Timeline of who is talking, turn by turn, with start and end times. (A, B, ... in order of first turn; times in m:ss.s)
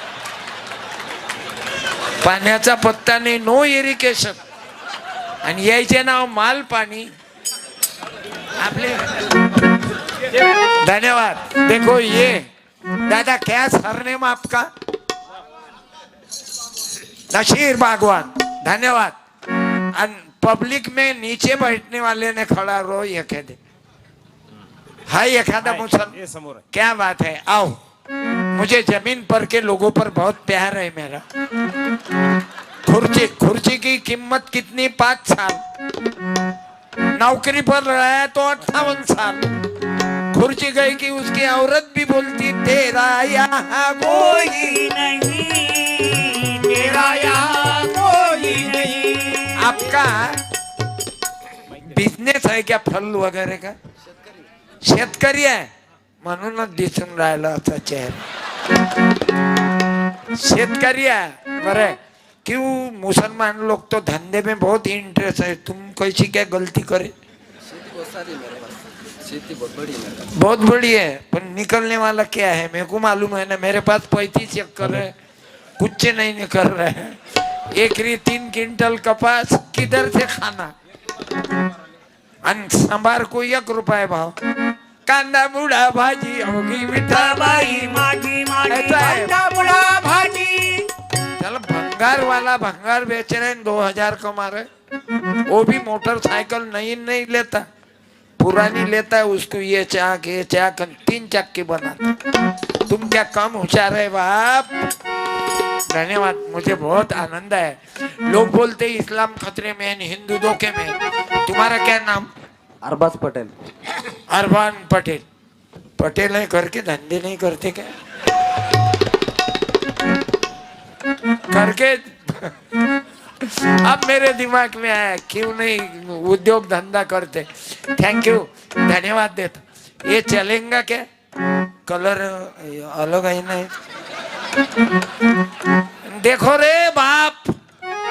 0:02.2-0:04.4 A
0:05.4-0:07.1 A
0:08.6-0:09.1 A
0:10.7-0:12.4 A
0:13.0-0:14.7 A
0:17.3-0:19.1 A
0:19.9-0:23.6 A
0:25.1-0:26.2 A
0:25.6-0:26.6 B
0:26.7-0:27.8 A
0:28.5-0:31.2 A
0:32.8-0:35.6 A
0:37.2-0:39.5 A
0:40.3-0:44.8 A
0:44.0-0:49.8 C
0:47.7-0:48.9 B
0:49.6-0:50.3 A
0:51.8-0:53.8 A
0:54.8-0:55.7 A
0:56.2-0:58.2 A
1:00.4-1:07.1 A
1:08.0-1:08.7 D
1:09.4-1:10.1 D
1:10.3-1:15.1 A
1:15.8-1:17.2 A
1:17.7-1:20.7 A
1:22.4-1:24.3 A
1:25.0-1:28.0 A
1:27.0-1:30.9 C
1:28.7-1:29.3 A
1:31.4-1:34.7 A
1:35.5-1:37.6 A
1:38.4-1:42.1 A
1:42.9-1:44.7 A
1:45.9-1:52.3 A
1:52.8-1:53.5 D
1:54.3-1:55.2 A
1:56.0-1:57.9 A
2:01.5-2:02.5 A
2:03.4-2:11.0 A
2:11.8-2:13.7 A
2:16.0-2:17.5 A